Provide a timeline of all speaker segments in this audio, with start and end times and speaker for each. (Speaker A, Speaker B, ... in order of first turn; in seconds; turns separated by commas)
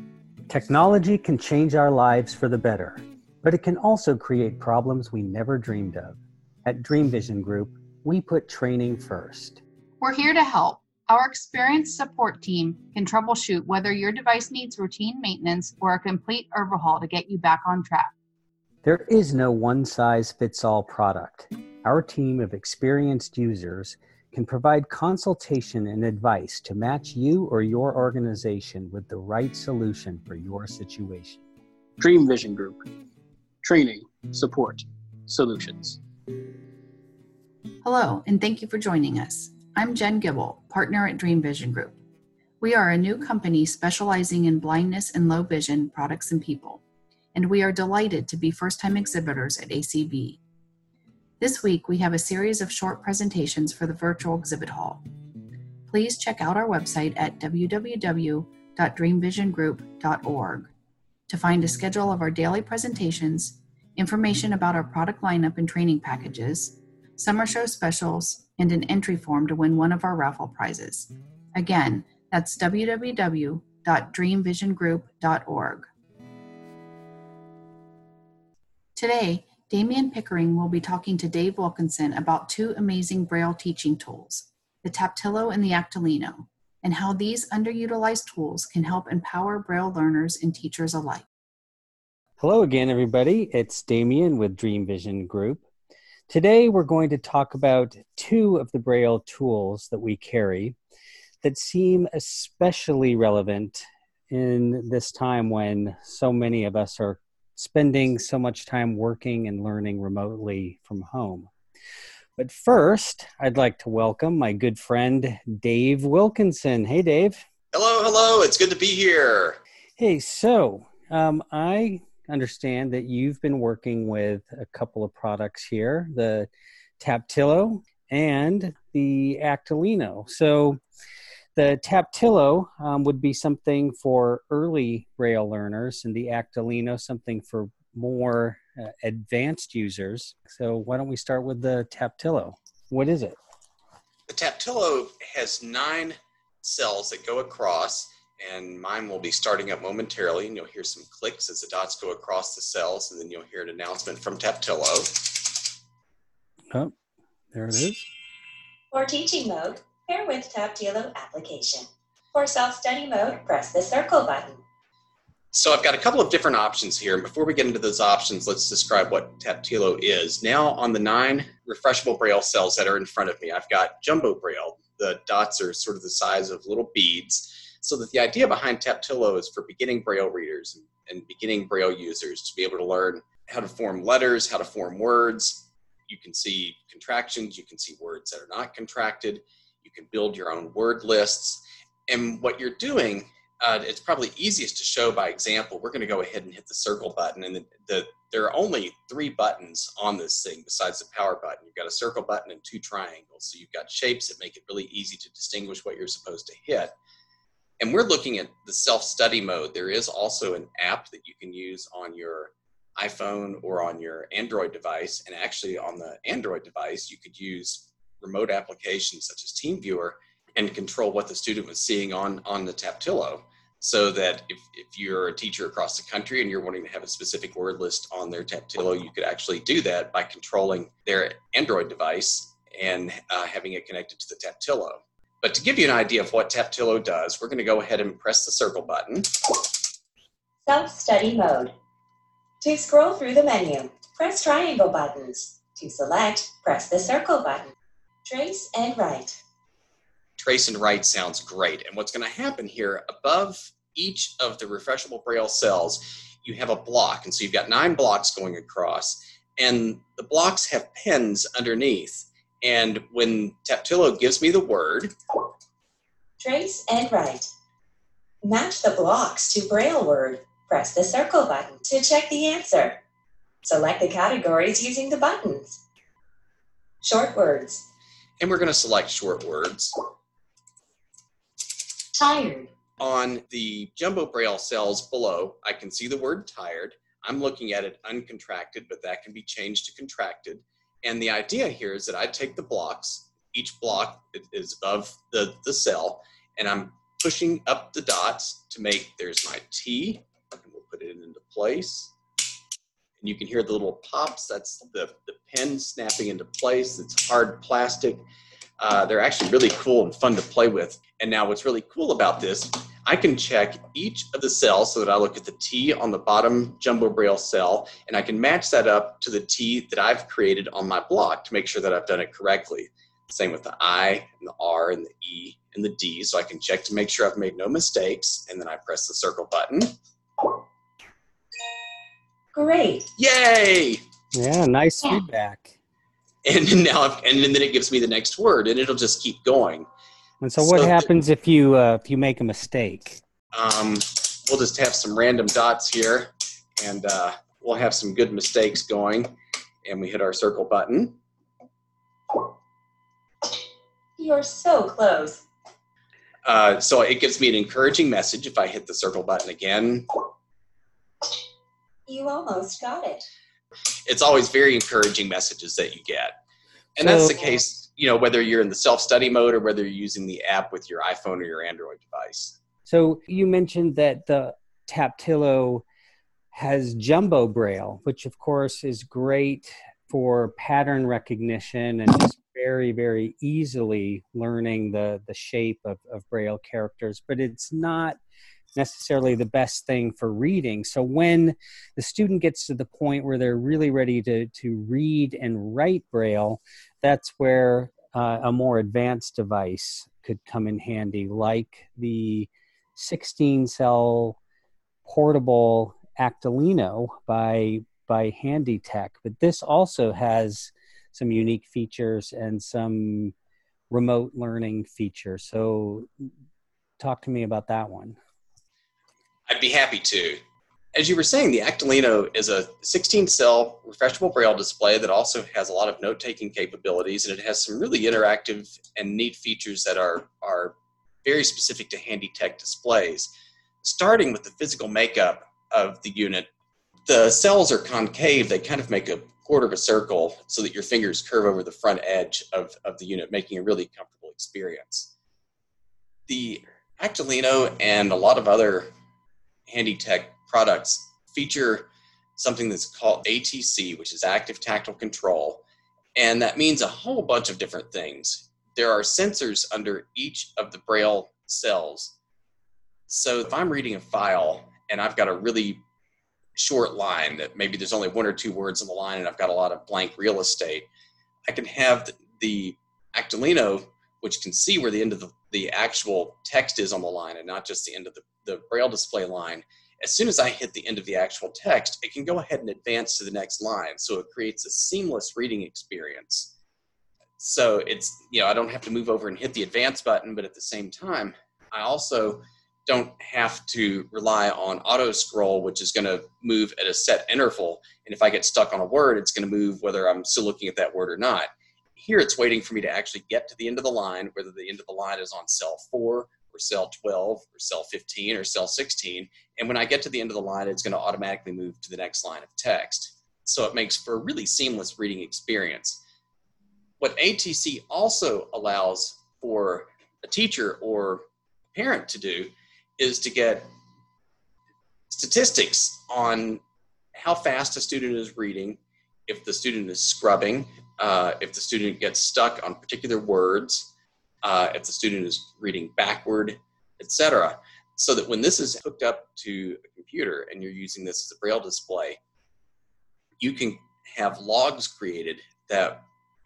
Speaker A: 0.5-9.6, Speaker B: 10.0-18.1, Speaker A: 18.8-31.4, Speaker C: 32.0-32.8, Speaker C: 33.6-36.0, Speaker B: 37.8-42.0, Speaker B: 42.6-46.8, Speaker B: 47.4-50.4, Speaker B: 51.4-55.0, Speaker B: 55.9-60.7, Speaker B: 61.3-75.9, Speaker B: 79.0-91.3, Speaker A: 92.4-95.6, Speaker A: 96.3-100.8, Speaker A: 101.4-111.5, Speaker A: 112.4-117.4, Speaker D: 117.7-119.6, Speaker A: 120.0-130.8, Speaker A: 131.6-143.4, Speaker D: 144.3-155.6, Speaker A: 157.5-158.1, Speaker E: 158.9-164.6, Speaker D: 165.5-207.0, Speaker D: 207.8-239.6, Speaker E: 240.7-241.7, Speaker E: 242.6-247.7, Speaker E: 248.2-249.4, Speaker D: 250.4-265.2, Speaker E: 266.4-267.5, Speaker E: 268.4-273.0, Speaker E: 273.6-275.8, Speaker E: 277.0-277.8, Speaker D: 278.4-280.0, Speaker E: 282.2-282.7, Speaker D: 283.0-302.1, Speaker D: 303.2-308.2, Speaker D: 308.8-330.6, Speaker E: 332.5-333.1, Speaker D: 333.1-334.0, Speaker A: 334.3-335.8, Speaker D: 336.4-339.9, Speaker A: 340.4-343.2, Speaker D: 340.6-341.1, Speaker D: 343.5-351.2, Speaker E: 354.2-355.4, Speaker D: 356.4-360.3, Speaker E: 362.1-363.3, Speaker D: 364.1-366.4, Speaker D: 367.0-372.6, Speaker A: 367.0-367.6, Speaker A: 372.9-375.9, Speaker A: 376.5-388.2, Speaker A: 388.8-404.4, Speaker A: 405.1-413.3, Speaker A: 413.9-416.3, Speaker A: 417.0-418.2, Speaker D: 419.5-420.4, Speaker D: 420.9-436.5, Speaker D: 437.1-445.1, Speaker D: 446.3-448.9, Speaker D: 449.7-455.6, Speaker D: 456.2-462.2, Speaker D: 463.1-465.8, Speaker D: 466.6-470.9, Speaker D: 471.5-486.5, Speaker D: 487.4-516.0, Speaker D: 517.0-523.7, Speaker D: 525.1-526.6, Speaker D: 527.2-533.9, Speaker D: 534.4-542.2, Speaker D: 543.4-546.1